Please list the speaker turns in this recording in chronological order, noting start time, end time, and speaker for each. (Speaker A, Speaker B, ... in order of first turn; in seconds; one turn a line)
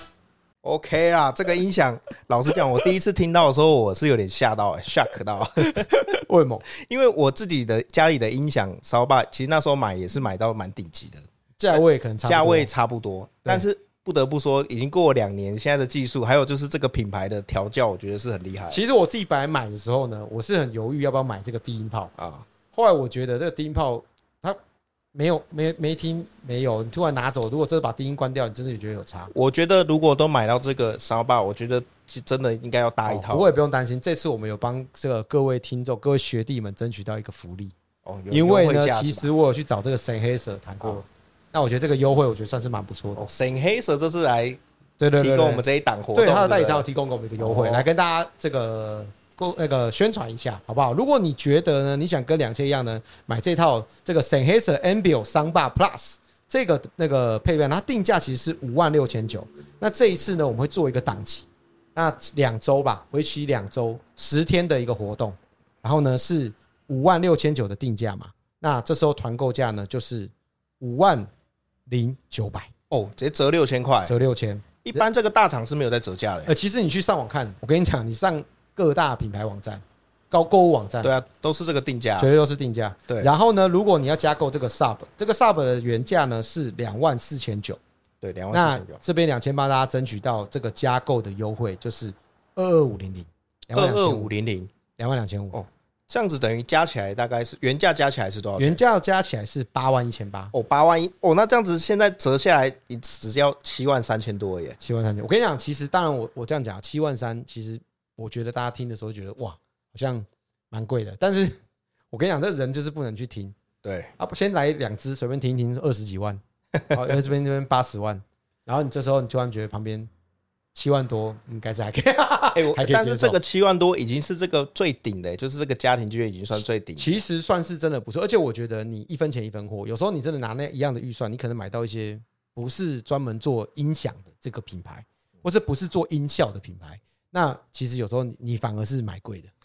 Speaker A: 0.6-6.0
Speaker B: 5.6-6.7
Speaker A: 6.7-18.8
Speaker B: 11.6-12.7
Speaker B: 18.7-22.1
Speaker A: 22.2-22.5
Speaker B: 22.7-24.6
Speaker B: 25.1-29.3
Speaker A: 29.3-33.5
Speaker B: 33.1-37.7
Speaker A: 38.0-39.3
Speaker B: 38.3-43.3
Speaker A: 43.2-44.6
Speaker B: 45.0-71.3
Speaker A: 45.2-46.9
Speaker A: 47.4-47.9
Speaker B: 71.9-72.7
Speaker A: 72.9-74.2
Speaker B: 74.1-75.0
Speaker A: 74.8-76.5
Speaker B: 76.5-81.1
Speaker A: 81.0-82.3
Speaker B: 82.2-87.8
Speaker A: 88.2-89.0
Speaker B: 88.5-94.3
Speaker A: 93.7-94.7
Speaker B: 95.0-95.6
Speaker A: 95.5-98.8
Speaker B: 98.6-100.5
Speaker A: 100.5-104.8
Speaker B: 104.8-111.6
Speaker B: 112.1-113.5
Speaker A: 113.8-114.1
Speaker B: 114.2-120.1
Speaker B: 120.7-123.4
Speaker A: 122.5-127.2
Speaker B: 127.0-139.5